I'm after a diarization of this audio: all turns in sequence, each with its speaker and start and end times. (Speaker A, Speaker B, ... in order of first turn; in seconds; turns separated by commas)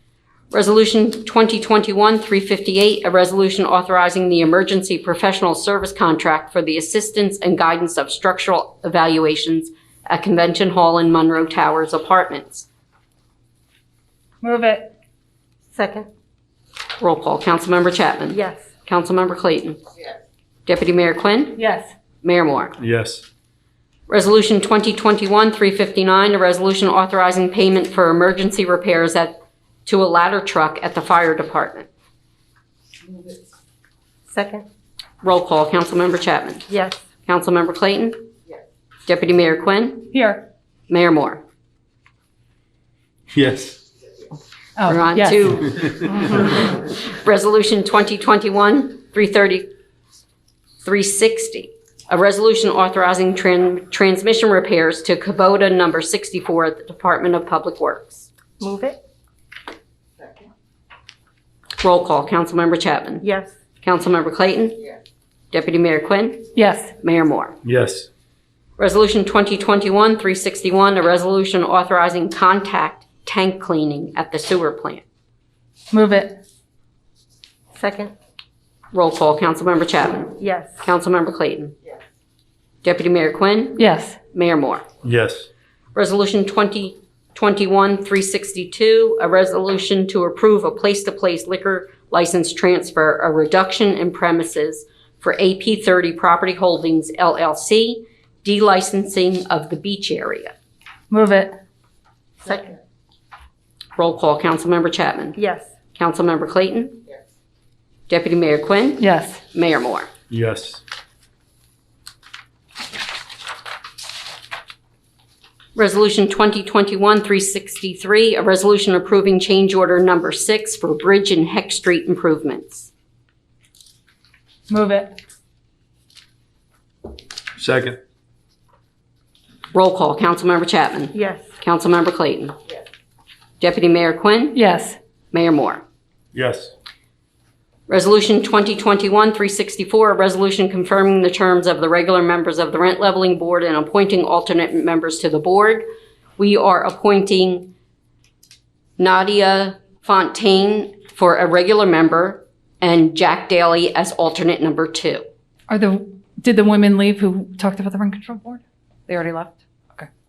Speaker A: 0.5-12.7, Speaker B: 14.4-14.9, Speaker C: 15.7-16.1, Speaker A: 17.0-19.8, Speaker C: 18.3-18.7, Speaker A: 20.7-21.6, Speaker B: 21.6-21.9, Speaker A: 22.2-22.8, Speaker D: 22.8-23.2, Speaker A: 24.1-31.9, Speaker C: 34.3-34.7, Speaker A: 35.2-36.7, Speaker C: 36.7-37.0, Speaker A: 37.3-38.3, Speaker A: 39.1-40.1, Speaker B: 40.1-40.5, Speaker A: 40.9-41.4, Speaker D: 43.3-43.8, Speaker B: 44.8-45.7, Speaker A: 44.9-46.2, Speaker D: 45.7-46.4, Speaker A: 47.0-49.7, Speaker A: 50.8-58.3, Speaker C: 58.6-59.0, Speaker A: 61.8-63.2, Speaker C: 63.2-63.5, Speaker A: 63.8-64.8, Speaker A: 65.5-67.6, Speaker B: 66.5-66.9, Speaker D: 67.6-68.1, Speaker A: 68.8-75.0, Speaker B: 75.9-76.4, Speaker C: 77.7-78.1, Speaker A: 78.9-81.8, Speaker C: 80.4-80.8, Speaker A: 82.8-84.9, Speaker B: 83.8-84.2, Speaker D: 85.0-85.5, Speaker A: 86.0-100.5, Speaker B: 101.1-101.6, Speaker C: 102.4-102.8, Speaker A: 104.0-105.4, Speaker C: 105.4-105.7, Speaker A: 106.0-107.0, Speaker A: 108.1-110.1, Speaker B: 109.0-109.4, Speaker D: 110.3-110.8, Speaker A: 115.8-122.9, Speaker B: 124.7-125.1, Speaker D: 127.6-128.0, Speaker A: 129.7-132.5, Speaker C: 131.1-131.5, Speaker A: 133.6-134.6, Speaker B: 134.5-135.0, Speaker A: 135.3-135.8, Speaker D: 136.3-136.7, Speaker A: 137.9-145.8, Speaker A: 146.4-147.7, Speaker A: 149.0-155.2, Speaker B: 155.7-160.1